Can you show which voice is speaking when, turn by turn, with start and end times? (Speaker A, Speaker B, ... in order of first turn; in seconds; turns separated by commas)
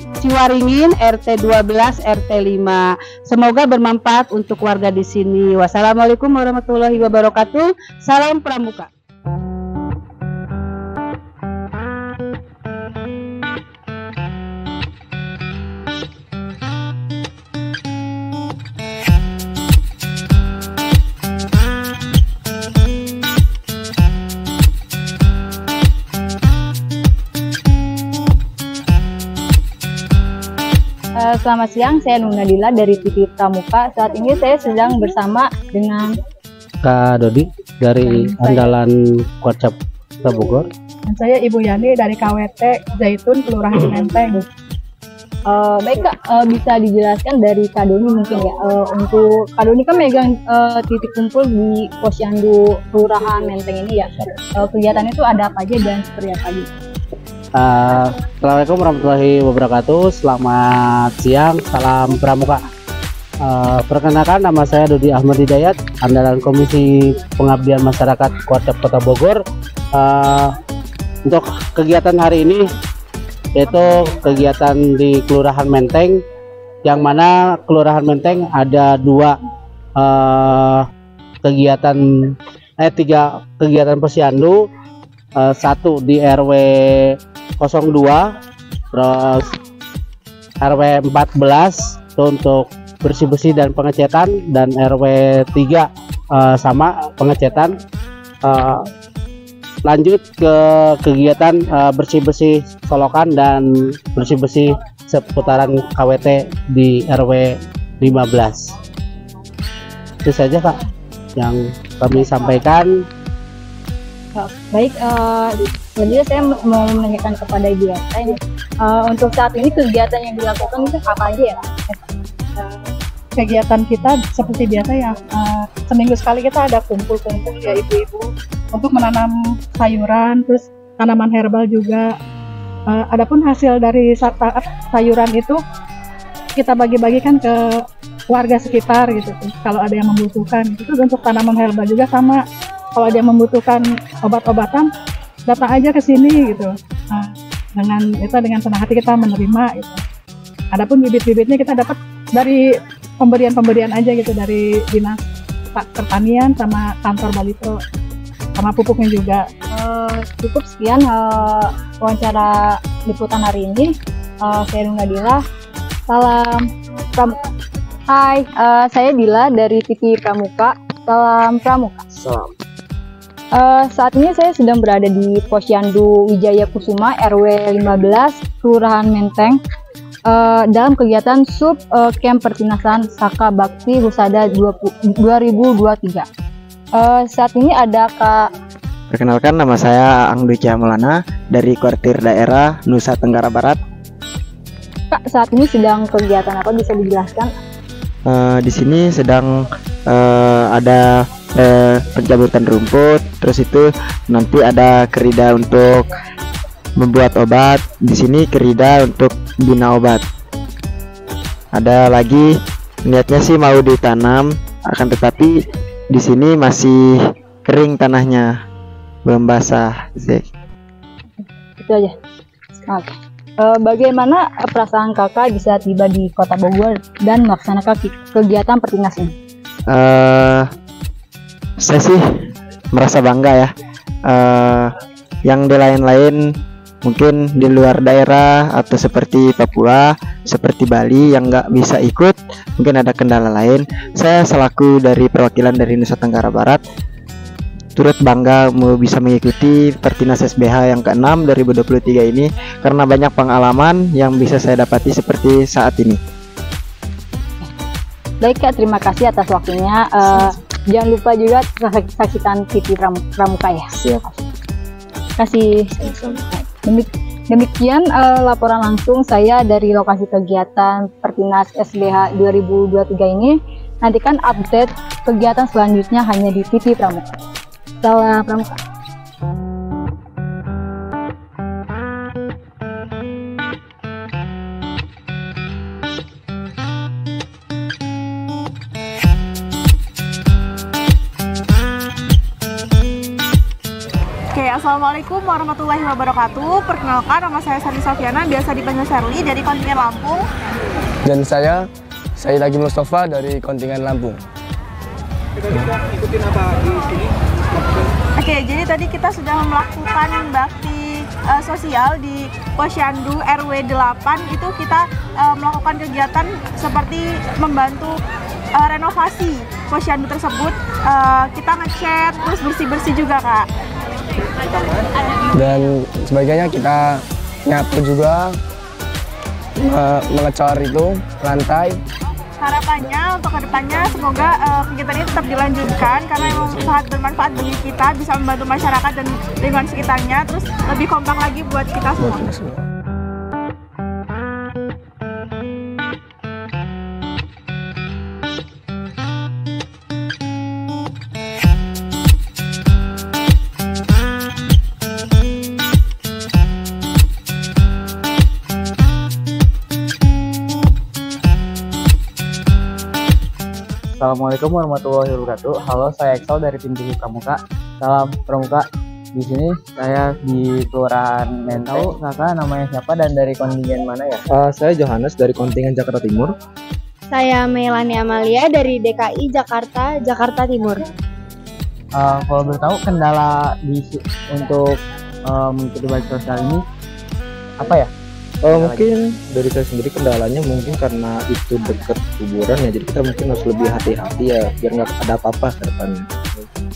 Speaker A: 0.2-8.9, Speaker B: 31.2-36.1, Speaker C: 36.8-40.6, Speaker D: 41.1-44.5, Speaker B: 45.5-56.7, Speaker C: 57.6-62.6, Speaker C: 63.5-69.4, Speaker C: 70.0-70.5, Speaker C: 71.2-72.6, Speaker C: 73.5-76.2, Speaker C: 76.8-79.3, Speaker C: 80.0-80.8, Speaker C: 81.4-84.6, Speaker C: 85.4-86.7, Speaker C: 87.6-88.3, Speaker C: 88.9-89.5, Speaker C: 90.6-97.7, Speaker C: 98.4-98.8, Speaker C: 99.8-108.6, Speaker C: 110.2-110.8, Speaker C: 111.4-112.9, Speaker B: 114.4-122.0, Speaker D: 123.3-132.1, Speaker D: 132.9-135.6, Speaker D: 136.6-142.4, Speaker D: 142.9-144.9, Speaker D: 145.5-150.0, Speaker D: 150.7-152.6, Speaker D: 153.2-157.8, Speaker D: 158.6-159.4, Speaker B: 159.7-165.4, Speaker B: 166.1-167.4, Speaker B: 168.1-172.1, Speaker B: 173.5-179.6, Speaker B: 180.3-186.3, Speaker B: 187.0-188.5, Speaker E: 189.1-193.8, Speaker B: 195.1-197.5, Speaker E: 198.3-199.5, Speaker E: 200.1-201.0, Speaker E: 201.6-206.1, Speaker E: 207.0-210.2, Speaker E: 211.7-212.5, Speaker E: 213.0-215.6, Speaker E: 216.1-218.5, Speaker E: 219.2-220.4, Speaker B: 221.4-222.1, Speaker B: 222.9-229.3, Speaker E: 229.9-230.7, Speaker E: 231.8-232.2, Speaker E: 232.9-233.7, Speaker E: 234.3-234.9, Speaker E: 235.4-236.4, Speaker E: 237.0-246.8, Speaker E: 247.9-256.2, Speaker B: 258.4-264.1, Speaker B: 265.4-277.3, Speaker B: 278.0-278.8, Speaker F: 294.5-300.4, Speaker G: 301.2-301.8, Speaker G: 302.4-304.4, Speaker F: 308.4-318.2, Speaker F: 318.8-323.7, Speaker G: 325.5-328.6, Speaker G: 329.8-332.0, Speaker F: 332.6-342.4, Speaker G: 342.2-342.7, Speaker H: 364.1-374.4, Speaker I: 371.7-372.1, Speaker I: 374.5-376.5, Speaker J: 377.3-381.0, Speaker H: 382.2-386.8, Speaker H: 387.8-388.1, Speaker I: 388.6-396.6, Speaker H: 388.7-389.0